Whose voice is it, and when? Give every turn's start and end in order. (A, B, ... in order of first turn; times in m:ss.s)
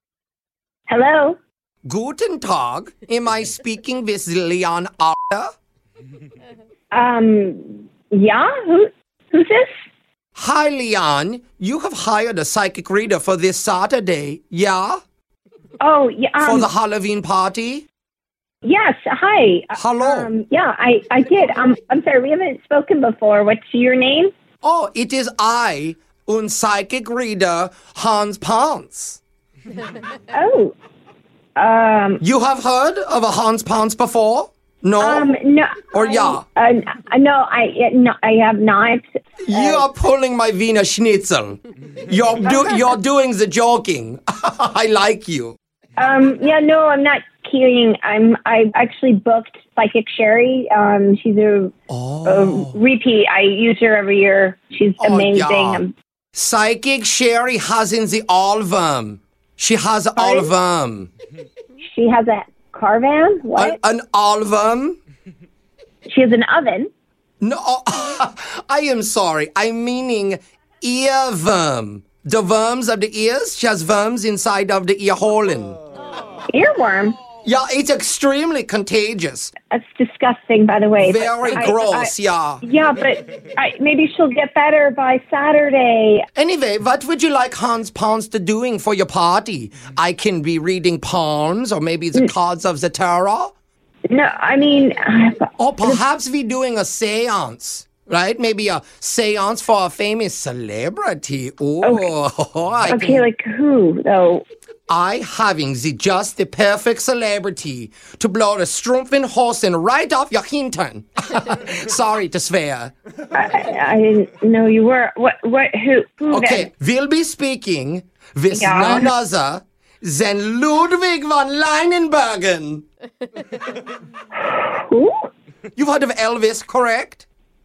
0:00.9-0:01.4 A
0:01.8-0:05.5 B
0:06.9-0:09.7 A
0:10.4-0:15.0 B
0:15.8-0:16.7 A
0:16.4-0:17.9 B
0:18.6-0:24.3 A
0:19.7-0:20.3 B
0:24.6-0:29.2 B
0:30.3-0:30.8 A
0:31.6-0:32.2 A
0:32.2-0:35.3 B
0:35.0-0:39.8 A
0:36.0-0:36.4 B
0:39.4-0:45.6 B
0:42.5-0:42.8 A
0:46.0-0:51.7 A
0:51.9-0:52.8 B
0:52.2-0:55.9 A
0:55.0-0:55.8 B
0:56.4-1:01.1 B
1:00.2-1:00.5 A
1:01.9-1:03.8 A
1:03.6-1:05.0 B
1:06.1-1:06.9 A
1:07.4-1:15.8 B
1:16.5-1:17.2 A
1:17.4-1:19.5 B
1:19.7-1:26.3 A
1:21.0-1:22.6 B
1:26.4-1:33.5 B
1:34.1-1:36.0 A
1:35.6-1:43.2 B
1:41.8-1:42.1 A
1:42.9-1:44.4 A
1:44.9-1:52.9 B
1:53.3-1:56.7 A
1:56.3-2:02.8 B
1:58.5-1:59.1 A
2:04.5-2:05.2 A
2:05.8-2:07.3 B